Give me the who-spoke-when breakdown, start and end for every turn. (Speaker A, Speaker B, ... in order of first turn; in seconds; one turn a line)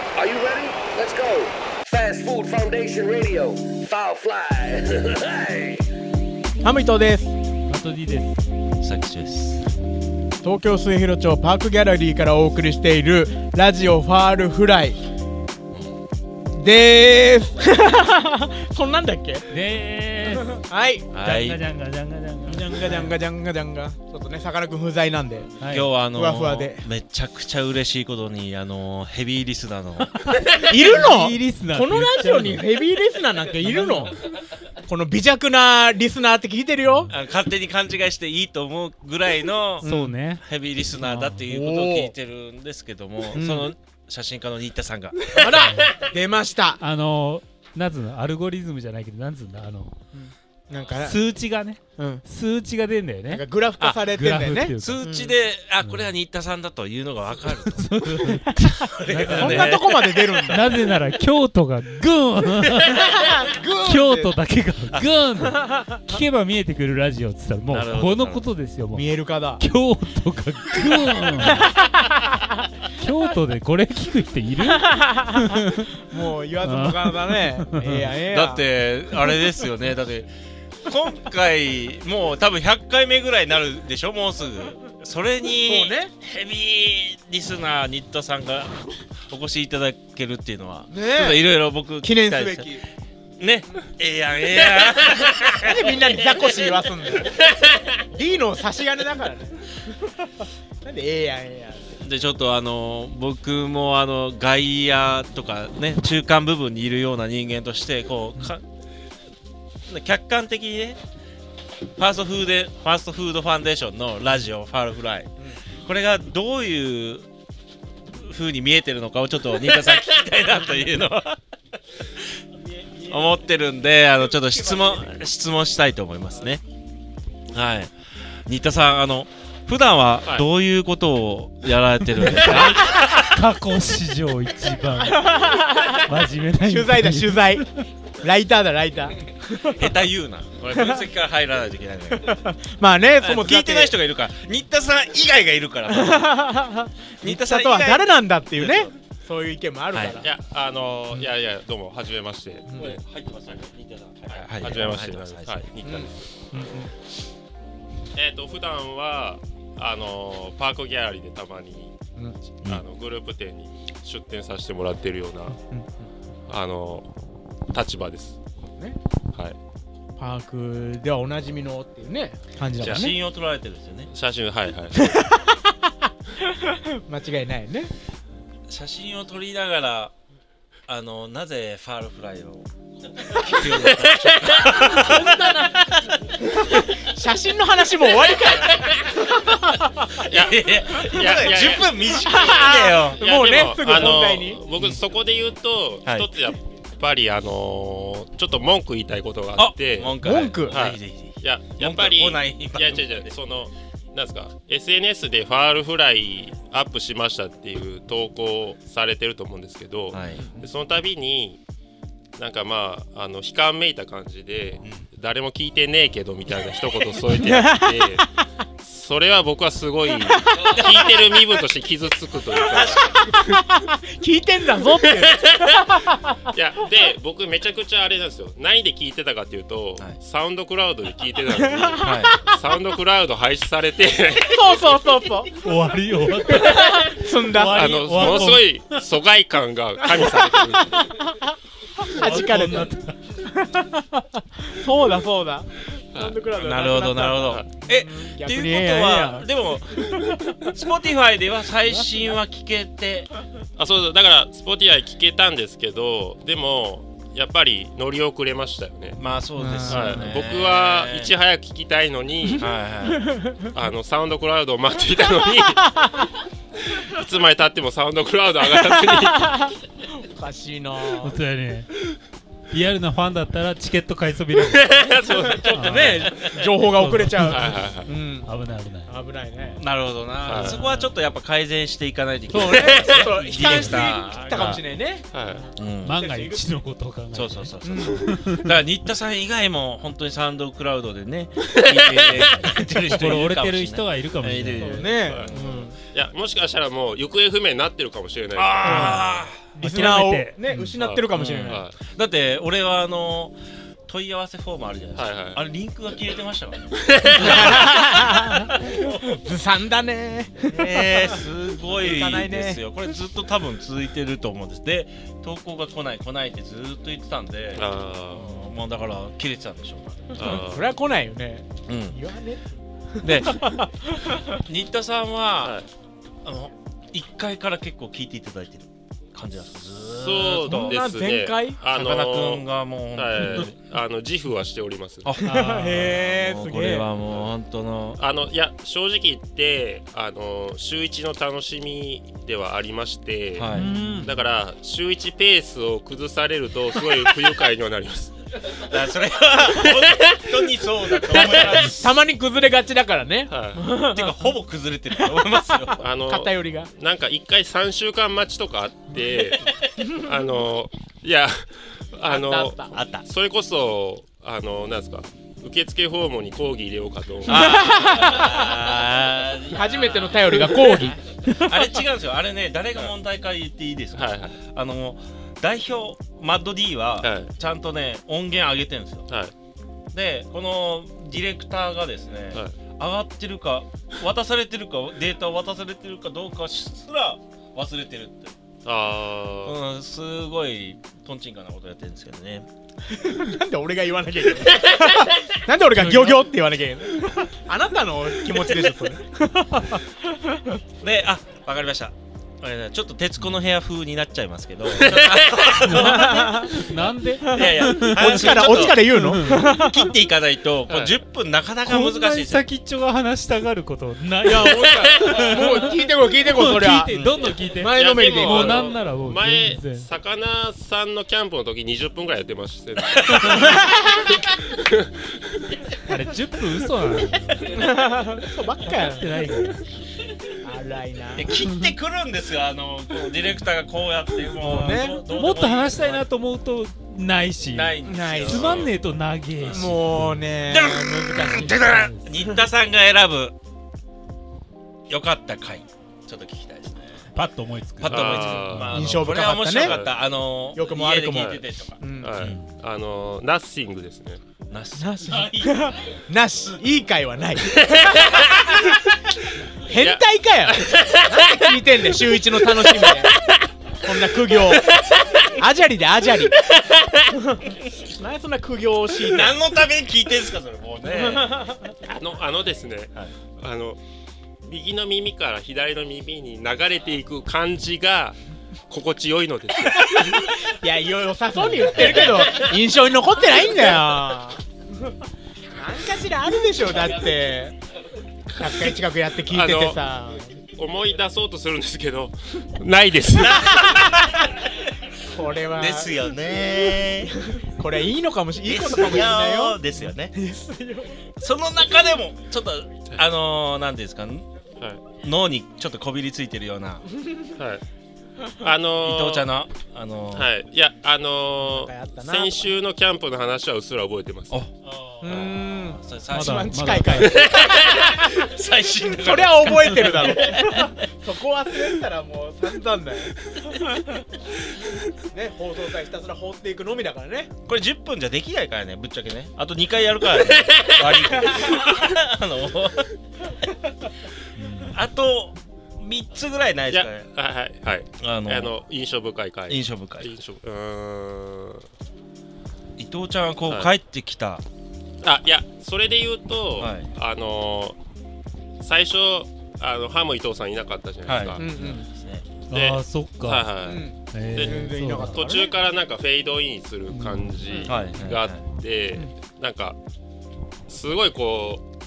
Speaker A: 0.2-5.8
Speaker B: 6.6-7.3
Speaker C: 7.7-8.4
Speaker D: 8.8-9.7
Speaker B: 10.4-15.0
Speaker D: 15.7-16.0
Speaker B: 16.5-19.5
Speaker C: 19.5-20.6
Speaker B: 20.6-21.1
Speaker D: 21.1-21.6
Speaker C: 21.2-23.1
Speaker B: 22.5-25.5
Speaker C: 25.6-25.9
Speaker D: 25.7-30.1
Speaker B: 26.1-26.9
Speaker C: 30.1-32.7
Speaker B: 30.6-34.1
Speaker C: 33.7-34.1
Speaker B: 34.9-37.1
Speaker D: 37.1-39.9
Speaker B: 39.8-40.2
Speaker C: 39.8-40.5
Speaker D: 40.4-45.5
Speaker B: 41.3-42.1
Speaker B: 43.3-43.7
Speaker B: 45.4-46.8
Speaker C: 45.5-46.0
Speaker C: 46.8-50.0
Speaker B: 50.1-51.2
Speaker C: 51.0-53.5
Speaker B: 52.0-52.2
Speaker B: 53.3-55.4
Speaker D: 53.8-54.1
Speaker C: 54.1-55.0
Speaker D: 54.8-60.4
Speaker C: 55.8-56.1
Speaker C: 57.5-59.7
Speaker B: 59.3-60.7
Speaker C: 60.5-63.1
Speaker B: 63.0-64.4
Speaker C: 63.8-69.1
Speaker D: 67.7-68.5
Speaker B: 68.9-69.6
Speaker C: 69.6-71.7
Speaker B: 71.4-72.3
Speaker C: 73.0-75.9
Speaker B: 74.7-75.5
Speaker B: 76.0-78.7
Speaker C: 76.6-78.1
Speaker D: 78.3-80.3
Speaker D: 80.8-92.8
Speaker B: 85.6-86.1
Speaker B: 90.9-91.5
Speaker B: 92.0-92.8
Speaker D: 93.4-96.4
Speaker B: 95.6-97.4
Speaker B: 98.1-100.3
Speaker B: 100.8-102.0
Speaker D: 102.0-108.6
Speaker D: 109.9-111.0
Speaker D: 112.0-115.3
Speaker D: 115.8-117.3
Speaker D: 118.1-121.4
Speaker B: 122.8-123.2
Speaker D: 123.1-126.6
Speaker D: 127.5-127.9
Speaker D: 128.5-133.2
Speaker C: 132.2-137.7
Speaker B: 135.3-136.0
Speaker B: 136.6-137.7
Speaker B: 138.2-140.0
Speaker D: 139.7-142.4
Speaker B: 140.7-141.0
Speaker B: 142.2-144.0
Speaker D: 143.2-146.5
Speaker B: 145.9-150.3
Speaker D: 147.2-148.9
Speaker D: 149.9-150.2
Speaker E: 150.2-153.0
Speaker D: 152.8-155.7
Speaker E: 154.6-156.7
Speaker B: 155.8-156.9
Speaker E: 158.1-161.9
Speaker E: 162.6-165.6
Speaker B: 165.7-166.1
Speaker E: 166.5-167.1
Speaker E: 167.7-168.4
Speaker B: 170.2-173.2
Speaker E: 172.8-173.2
Speaker D: 172.8-174.1
Speaker E: 174.1-175.1
Speaker B: 174.9-175.9
Speaker B: 176.4-177.9
Speaker D: 178.7-180.1
Speaker D: 180.9-185.3
Speaker E: 183.9-185.0
Speaker B: 184.8-185.8
Speaker B: 187.0-190.1
Speaker E: 190.2-200.2
Speaker D: 190.3-193.2
Speaker B: 192.1-194.6
Speaker D: 199.6-203.3
Speaker B: 200.2-200.8
Speaker E: 200.7-211.6
Speaker D: 210.1-210.4
Speaker E: 212.4-218.3
Speaker B: 217.3-218.2
Speaker E: 218.8-223.2
Speaker B: 220.4-221.1
Speaker B: 222.9-226.4
Speaker E: 225.2-225.8
Speaker E: 226.5-234.7
Speaker B: 231.6-232.3
Speaker D: 232.0-232.4
Speaker B: 234.5-235.5
Speaker C: 235.6-239.0
Speaker B: 236.6-237.9
Speaker E: 237.8-241.1
Speaker B: 240.2-241.5
Speaker B: 242.0-242.9
Speaker C: 242.1-243.2
Speaker D: 242.3-242.8
Speaker B: 243.4-250.4
Speaker E: 246.1-246.4
Speaker D: 246.6-253.3
Speaker E: 253.8-259.2
Speaker D: 259.2-261.3
Speaker B: 259.6-260.3
Speaker E: 259.9-262.7
Speaker D: 262.5-263.4
Speaker B: 263.2-263.6
Speaker E: 263.7-266.0
Speaker E: 266.9-269.7
Speaker B: 269.4-271.4
Speaker C: 271.2-272.1
Speaker C: 272.7-276.3
Speaker E: 274.7-276.2
Speaker B: 275.7-278.5
Speaker C: 276.9-279.1
Speaker E: 277.5-278.1
Speaker B: 279.1-279.8
Speaker D: 279.8-284.8
Speaker E: 280.4-280.8
Speaker C: 280.5-281.1
Speaker B: 282.5-285.3
Speaker E: 282.7-283.3
Speaker C: 283.6-284.8
Speaker E: 285.3-285.7
Speaker D: 285.8-286.1
Speaker C: 286.0-288.8
Speaker B: 286.1-286.7
Speaker D: 287.3-295.8
Speaker B: 287.8-288.3
Speaker E: 291.8-292.5
Speaker C: 292.4-295.1
Speaker B: 294.8-296.0
Speaker E: 295.1-299.2
Speaker D: 298.5-299.7
Speaker C: 298.9-300.8
Speaker B: 299.8-301.9
Speaker E: 301.0-302.0
Speaker D: 301.3-303.6
Speaker D: 304.1-308.0
Speaker E: 305.1-305.6
Speaker E: 307.0-307.9
Speaker B: 307.4-312.8
Speaker D: 310.7-320.6
Speaker E: 317.8-318.6
Speaker E: 320.4-320.9
Speaker B: 320.4-324.5
Speaker D: 321.9-322.2
Speaker D: 323.2-323.6
Speaker D: 324.5-325.8
Speaker E: 325.6-325.9
Speaker D: 326.4-331.0
Speaker E: 330.1-335.3
Speaker B: 330.6-331.8
Speaker D: 331.9-333.7
Speaker D: 335.2-338.2
Speaker C: 335.4-336.1
Speaker B: 335.5-337.1
Speaker E: 338.2-348.4
Speaker D: 343.6-343.9
Speaker C: 343.7-344.4
Speaker D: 348.8-352.2
Speaker E: 349.8-351.9
Speaker B: 351.3-354.5
Speaker E: 353.5-353.9
Speaker D: 354.1-356.1
Speaker B: 355.9-356.9
Speaker E: 356.0-368.5
Speaker B: 362.3-363.0
Speaker D: 362.9-363.3
Speaker D: 367.5-379.3
Speaker B: 367.5-368.7
Speaker B: 369.7-371.7
Speaker E: 374.1-374.6
Speaker E: 377.2-377.5
Speaker E: 379.3-379.5
Speaker D: 380.1-388.5
Speaker E: 388.9-389.8
Speaker D: 389.6-392.7
Speaker B: 393.1-400.7
Speaker C: 395.9-396.4
Speaker D: 401.0-406.8
Speaker E: 404.9-405.5
Speaker C: 405.9-409.7
Speaker B: 405.9-406.8
Speaker B: 407.4-410.1
Speaker D: 407.5-412.6
Speaker E: 410.9-411.2
Speaker C: 411.8-420.1
Speaker B: 414.4-417.1
Speaker B: 417.8-418.9
Speaker E: 418.0-424.1
Speaker D: 423.3-423.9
Speaker E: 424.7-425.1
Speaker C: 426.1-427.9
Speaker B: 427.7-429.4
Speaker C: 428.9-429.9
Speaker B: 430.6-431.6
Speaker D: 431.3-436.3
Speaker B: 434.6-435.2
Speaker C: 435.3-440.4
Speaker D: 437.7-438.9
Speaker B: 438.1-438.8
Speaker D: 439.6-440.0
Speaker B: 439.7-441.9
Speaker D: 440.7-443.6
Speaker C: 441.5-442.3
Speaker D: 445.1-447.3
Speaker C: 447.3-449.2
Speaker D: 448.0-452.7
Speaker E: 448.1-449.1
Speaker B: 448.9-450.0
Speaker E: 449.8-450.2
Speaker B: 450.8-452.5
Speaker E: 451.3-451.6
Speaker E: 452.2-454.4
Speaker D: 454.7-456.1
Speaker B: 455.0-459.2
Speaker E: 457.8-458.6
Speaker B: 459.8-463.4
Speaker E: 459.9-461.3
Speaker B: 464.0-464.9
Speaker B: 465.5-466.6
Speaker D: 466.7-467.1
Speaker B: 467.3-469.6
Speaker D: 469.1-471.6
Speaker B: 471.1-471.9
Speaker E: 472.0-474.0
Speaker E: 474.6-480.5
Speaker B: 480.1-484.6
Speaker E: 482.0-482.5
Speaker B: 485.7-487.8
Speaker B: 488.6-490.6
Speaker E: 489.5-490.0
Speaker E: 490.7-494.1
Speaker D: 493.5-494.4
Speaker B: 495.2-496.2
Speaker D: 495.8-497.3
Speaker B: 497.2-501.2
Speaker D: 498.6-500.3
Speaker D: 501.4-504.5
Speaker E: 504.8-505.1
Speaker D: 505.2-507.0
Speaker E: 507.6-507.8
Speaker E: 508.6-509.6
Speaker D: 509.0-510.5
Speaker E: 510.3-514.6
Speaker B: 511.6-512.6
Speaker D: 514.5-516.7
Speaker B: 515.2-517.4
Speaker C: 516.3-517.4
Speaker D: 517.2-521.0
Speaker B: 519.1-524.0
Speaker B: 525.2-527.5
Speaker D: 527.7-533.1
Speaker E: 530.6-531.4
Speaker C: 534.6-535.0
Speaker D: 534.9-537.3
Speaker E: 536.9-541.9
Speaker D: 538.2-538.7
Speaker D: 539.7-540.4
Speaker D: 543.0-544.6
Speaker E: 543.7-543.9
Speaker E: 545.2-548.0
Speaker D: 546.8-547.1
Speaker E: 548.8-551.7
Speaker D: 551.3-552.5
Speaker B: 551.6-552.1
Speaker E: 552.7-560.0
Speaker C: 552.7-553.7
Speaker B: 553.9-555.8
Speaker C: 554.3-555.4
Speaker C: 557.1-557.6
Speaker D: 557.9-558.6
Speaker E: 560.9-561.8